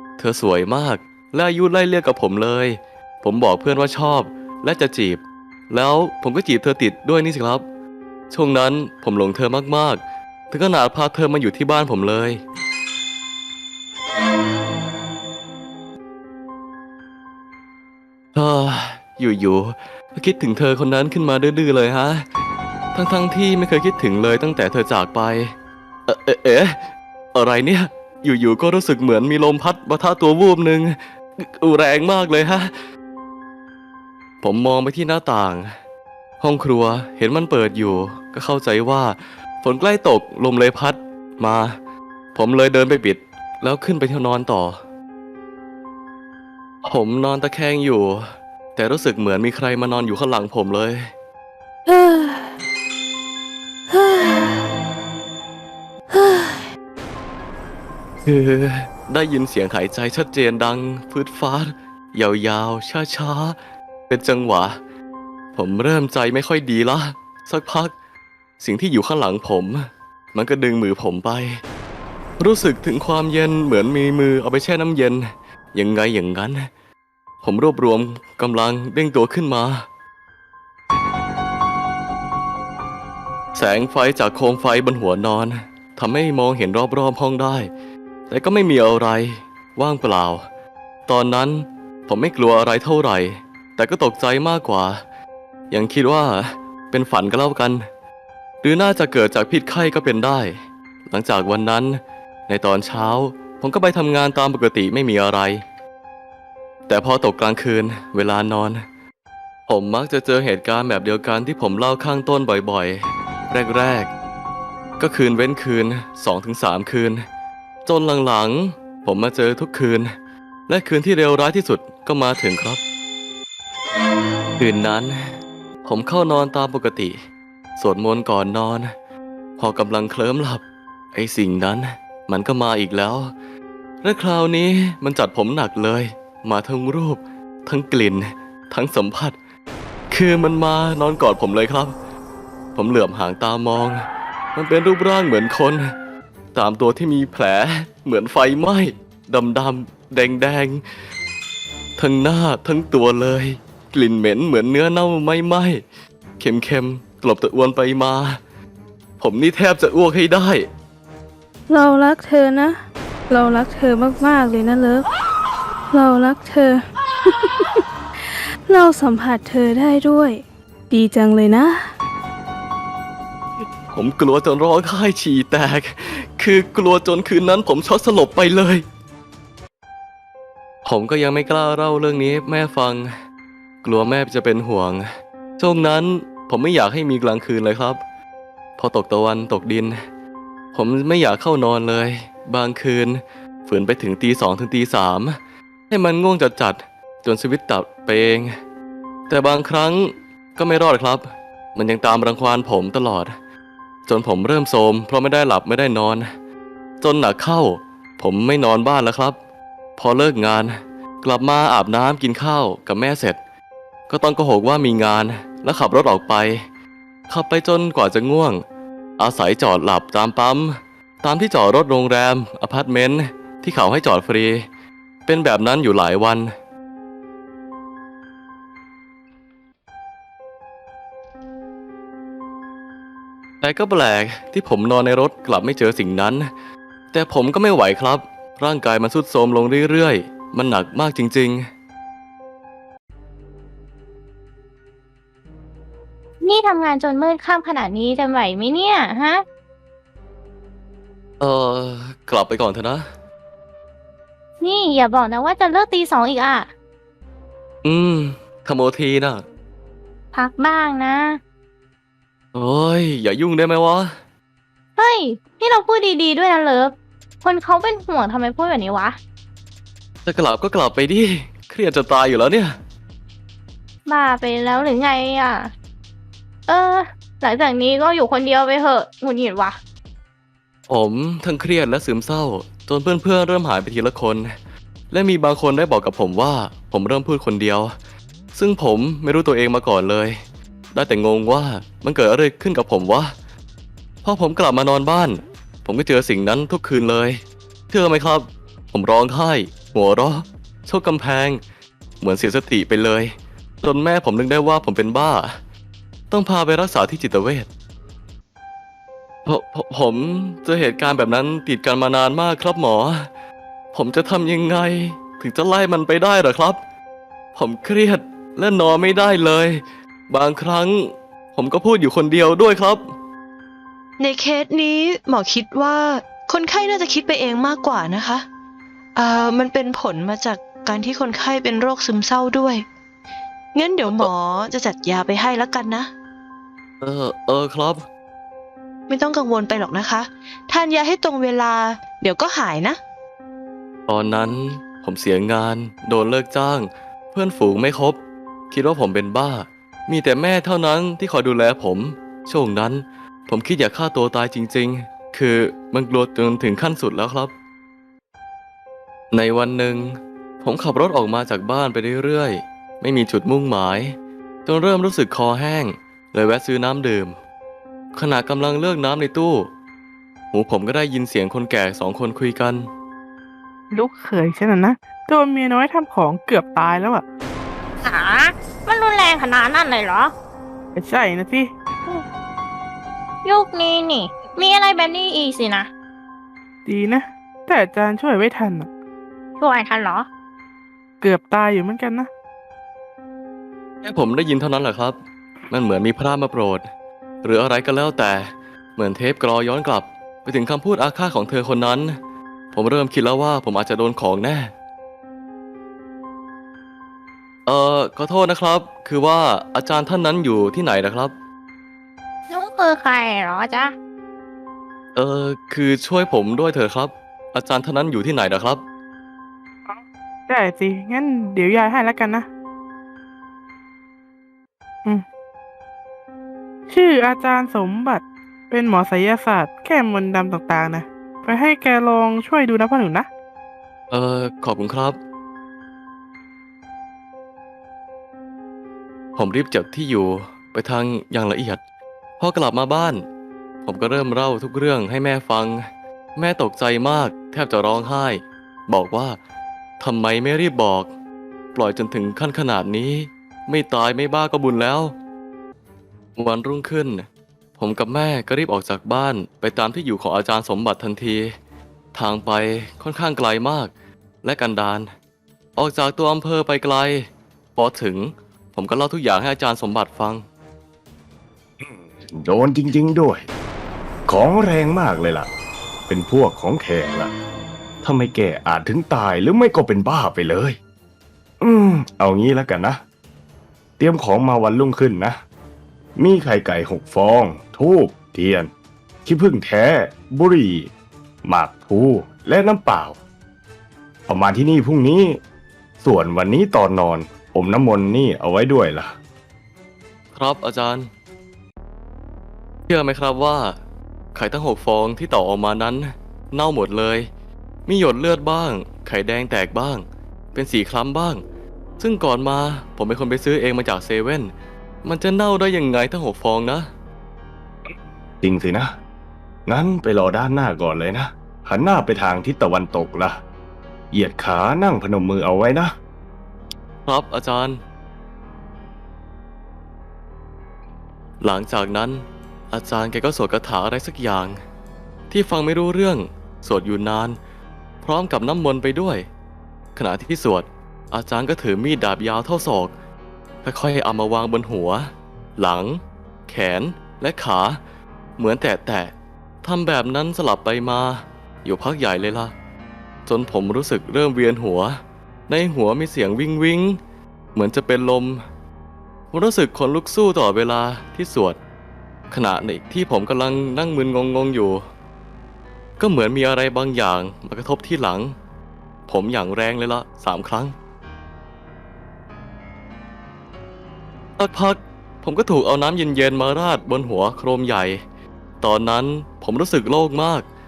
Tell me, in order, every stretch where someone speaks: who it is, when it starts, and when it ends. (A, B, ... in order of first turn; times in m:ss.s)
0:00.2-0:07.6 A
0:08.3-0:12.4 A
0:18.4-0:22.2 A
0:22.9-0:25.5 A
0:26.1-0:32.7 A
0:34.4-0:35.7 A
0:36.4-0:41.8 A
0:42.3-0:44.8 A
0:46.8-0:51.1 A
0:51.9-0:52.5 B
0:53.9-0:54.7 B
0:56.1-0:56.6 B
0:58.2-1:03.6 A
1:04.1-1:04.8 A
1:05.5-1:07.9 A
1:08.6-1:11.6 A
1:12.4-1:16.7 A
1:17.4-1:19.8 A
1:23.6-1:27.7 A
1:28.3-1:30.4 A
1:31.1-1:35.0 A
1:35.7-1:37.8 A
1:38.6-1:45.6 A
1:46.9-1:48.8 A
1:49.7-1:54.1 A
1:55.0-1:57.2 A
1:57.8-2:00.1 A
2:00.7-2:02.8 A
2:04.6-2:07.2 A
2:07.8-2:08.9 A
2:09.6-2:13.3 A
2:14.0-2:19.4 A
2:20.1-2:21.9 A
2:22.7-2:24.0 A
2:24.5-2:25.9 A
2:26.5-2:30.8 A
2:32.0-2:35.8 A
2:36.4-2:38.4 A
2:39.2-2:40.7 A
2:41.7-2:45.1 B
2:45.9-2:47.8 B
2:48.6-2:51.9 B
2:53.9-2:58.8 A
3:00.8-3:03.1 A
3:03.8-3:08.0 A
3:08.8-3:10.0 A
3:10.7-3:15.4 A
3:15.9-3:18.5 A
3:19.3-3:23.4 A
3:24.0-3:26.3 A
3:27.0-3:29.4 A
3:30.0-3:33.4 A
3:34.1-3:36.6 A
3:37.3-3:38.6 A
3:39.2-3:44.6 A
3:45.2-3:46.5 A
3:53.6-3:56.5 A
3:57.1-4:01.7 A
4:06.4-4:09.4 C
4:11.4-4:13.1 A
4:14.6-4:16.7 C
4:17.8-4:19.4 A
4:20.3-4:21.4 C
4:22.5-4:24.2 A
4:25.0-4:29.2 C
4:30.2-4:32.8 A
4:34.1-4:35.7 C
4:36.7-4:39.8 C
4:40.9-4:44.5 A
4:45.1-4:47.9 A
4:48.6-4:50.4 A
4:50.9-4:53.3 A
4:54.2-5:01.6 A
5:02.2-5:05.6 A
5:06.3-5:07.7 A
5:09.5-5:13.3 A
5:13.9-5:16.8 A
5:17.6-5:23.0 A
5:24.2-5:28.5 D
5:29.2-5:32.8 D
5:33.8-5:36.1 D
5:37.0-5:38.0 A
5:39.1-5:43.0 D
5:44.1-5:48.2 A
5:48.7-5:57.5 A
5:59.3-6:07.4 A
6:08.1-6:09.7 A
6:10.5-6:12.9 A
6:13.9-6:17.2 E
6:18.0-6:20.3 C
6:20.9-6:22.2 E
6:23.4-6:25.9 C
6:26.9-6:28.9 E
6:29.6-6:30.3 C
6:31.2-6:32.3 E
6:34.0-6:35.2 A
6:35.7-6:36.9 A
6:37.4-6:42.2 A
6:42.7-6:44.7 A
6:47.7-6:51.3 A
6:52.5-6:53.9 C
6:55.2-6:58.8 A
6:59.9-7:02.5 E
7:06.9-7:13.3 E
7:14.1-7:15.2 A
7:19.4-7:21.8 A
7:22.4-7:23.2 A
7:23.8-7:29.4 A
7:30.0-7:31.1 A
7:31.8-7:35.2 A
7:36.4-7:37.3 A
7:37.8-7:41.5 A
7:42.1-7:43.9 A
7:44.4-7:45.1 A
7:45.8-7:50.4 A
7:51.8-7:53.5 F
7:54.3-7:55.5 F
7:56.1-7:57.3 F
7:58.0-8:00.8 F
8:01.6-8:03.0 F
8:04.0-8:05.4 F
8:06.2-8:08.7 F
8:09.2-8:10.9 F
8:11.4-8:13.2 F
8:14.3-8:15.4 F
8:16.0-8:19.1 F
8:20.3-8:21.1 A
8:22.9-8:23.8 A
8:24.4-8:27.3 A
8:27.9-8:31.4 A
8:32.0-8:34.5 A
8:35.0-8:36.9 A
8:37.9-8:38.9 F
8:39.7-8:43.4 F
8:44.1-8:45.9 F
8:47.0-8:47.8 A
8:51.4-8:54.6 A
8:55.3-8:57.4 A
8:58.0-8:59.3 A
9:00.0-9:02.9 A
9:03.6-9:07.8 A
9:08.4-9:12.5 A
9:13.2-9:17.0 A
9:17.6-9:18.4 A
9:19.3-9:21.6 A
9:22.3-9:24.8 A
9:26.0-9:28.4 A
9:29.1-9:30.7 A
9:34.4-9:38.0 A
9:38.6-9:40.5 A